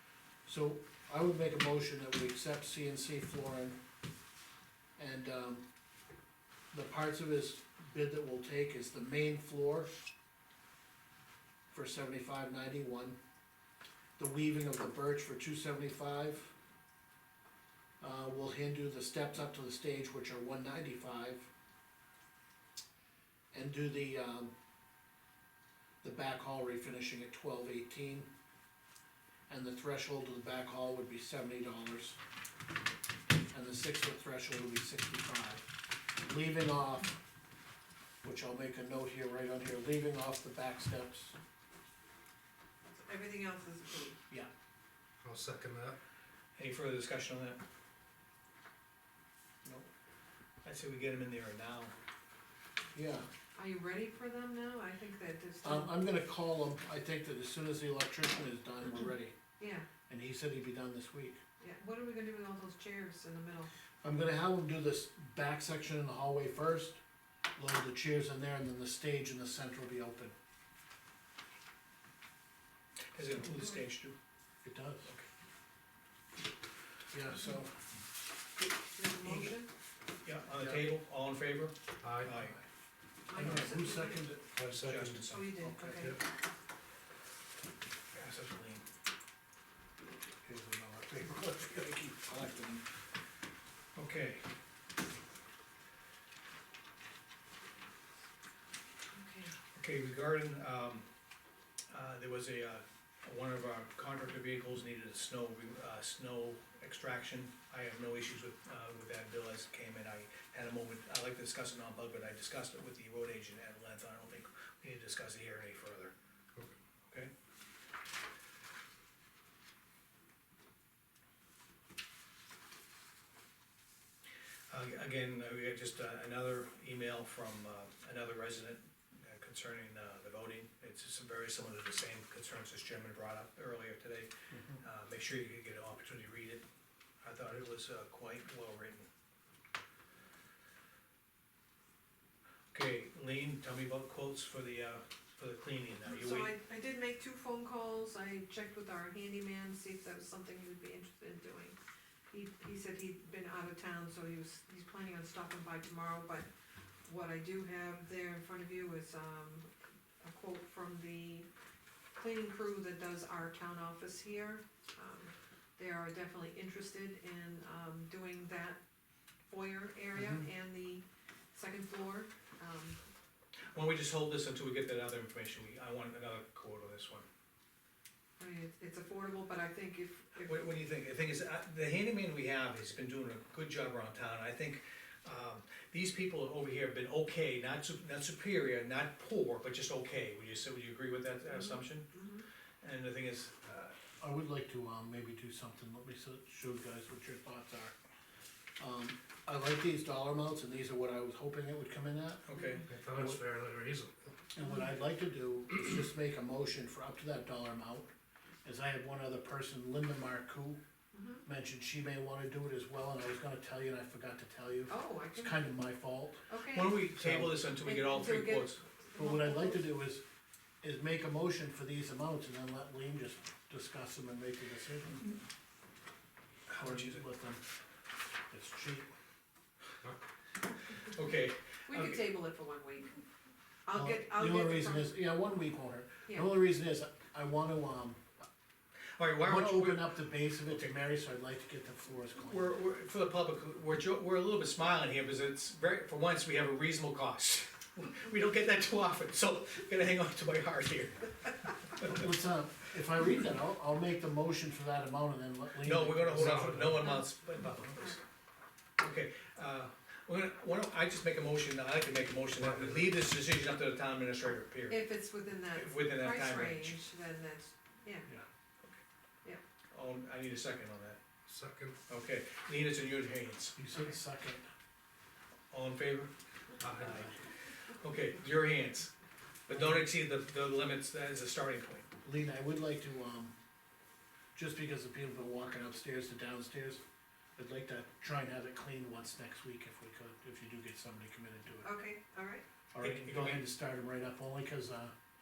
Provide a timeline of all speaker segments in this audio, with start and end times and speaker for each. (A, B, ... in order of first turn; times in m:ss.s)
0:00.4-0:03.8 A
0:05.0-0:05.6 A
0:06.7-0:09.9 A
0:11.7-0:13.2 A
0:14.2-0:16.5 A
0:18.0-0:21.5 A
0:23.5-0:24.5 A
0:26.0-0:28.3 A
0:29.5-0:32.2 A
0:33.5-0:35.6 A
0:36.2-0:37.2 A
0:38.2-0:41.4 A
0:43.0-0:44.2 B
0:45.2-0:46.0 C
0:46.6-0:47.6 D
0:49.6-0:49.9 A
0:50.6-0:51.9 D
0:52.9-0:53.3 A
0:53.5-0:55.9 B
0:55.6-0:59.3 A
0:59.6-0:59.9 B
1:00.1-1:01.4 A
1:01.6-1:03.7 B
1:04.0-1:07.0 A
1:07.6-1:10.3 A
1:13.1-1:14.2 D
1:14.6-1:15.1 A
1:17.1-1:17.8 A
1:18.9-1:19.7 B
1:20.2-1:22.6 D
1:22.0-1:22.3 C
1:22.4-1:22.6 A
1:23.3-1:24.2 B
1:23.3-1:24.5 A
1:24.5-1:25.3 C
1:24.7-1:25.6 D
1:25.3-1:26.2 B
1:25.6-1:26.2 A
1:28.1-1:28.8 D
1:30.4-1:32.8 A
1:34.0-1:34.4 D
1:39.1-1:39.5 B
1:39.7-1:41.0 D
1:41.9-1:56.1 D
2:04.7-2:14.3 D
2:14.5-2:14.8 A
2:14.8-2:16.6 D
2:17.2-2:19.1 D
2:22.7-2:26.5 D
2:26.0-2:31.8 B
2:32.3-2:36.5 B
2:37.0-2:39.7 B
2:40.2-2:41.5 B
2:42.2-2:48.8 B
2:49.5-2:53.0 B
2:50.1-2:50.4 A
2:53.7-2:57.2 D
2:58.4-3:00.7 B
3:00.4-3:12.1 D
3:11.5-3:12.4 B
3:12.8-3:13.9 D
3:14.2-3:17.9 A
3:18.8-3:22.5 A
3:22.4-3:22.8 D
3:22.9-3:24.3 C
3:23.1-3:23.4 A
3:24.5-3:28.1 A
3:28.6-3:30.8 A
3:31.1-3:31.4 B
3:31.4-3:36.4 A
3:34.9-3:35.8 B
3:36.5-3:37.1 B
3:36.7-3:38.8 D
3:37.2-3:37.7 A
3:37.8-3:39.9 B
3:39.1-3:40.2 A
3:40.8-3:45.3 A
3:46.7-3:47.2 D
3:46.8-3:47.6 A
3:48.5-3:49.1 A
3:51.0-3:52.2 D
3:51.9-3:53.2 B
3:53.8-3:55.1 B
3:53.9-3:58.3 A
3:59.2-4:00.9 D
3:59.4-4:02.6 A
4:02.4-4:11.3 D
4:12.0-4:12.2 D
4:12.0-4:17.1 A
4:15.8-4:18.2 D
4:16.3-4:17.1 C
4:17.0-4:18.2 B
4:19.0-4:25.1 D
4:22.6-4:23.2 C
4:24.9-4:28.3 B
4:25.7-4:27.0 D
4:29.9-4:31.2 D
4:31.5-4:32.0 C
4:32.1-4:33.8 D
4:33.8-4:34.6 A
4:35.7-4:36.3 D
4:36.8-4:37.3 C
4:36.9-4:39.1 D
4:39.7-4:42.1 D
4:39.7-4:40.1 A
4:42.2-4:43.5 A
4:44.5-4:47.0 A
4:47.6-4:51.9 A
4:51.8-4:52.6 B
4:52.9-4:55.1 A
4:53.0-4:53.7 D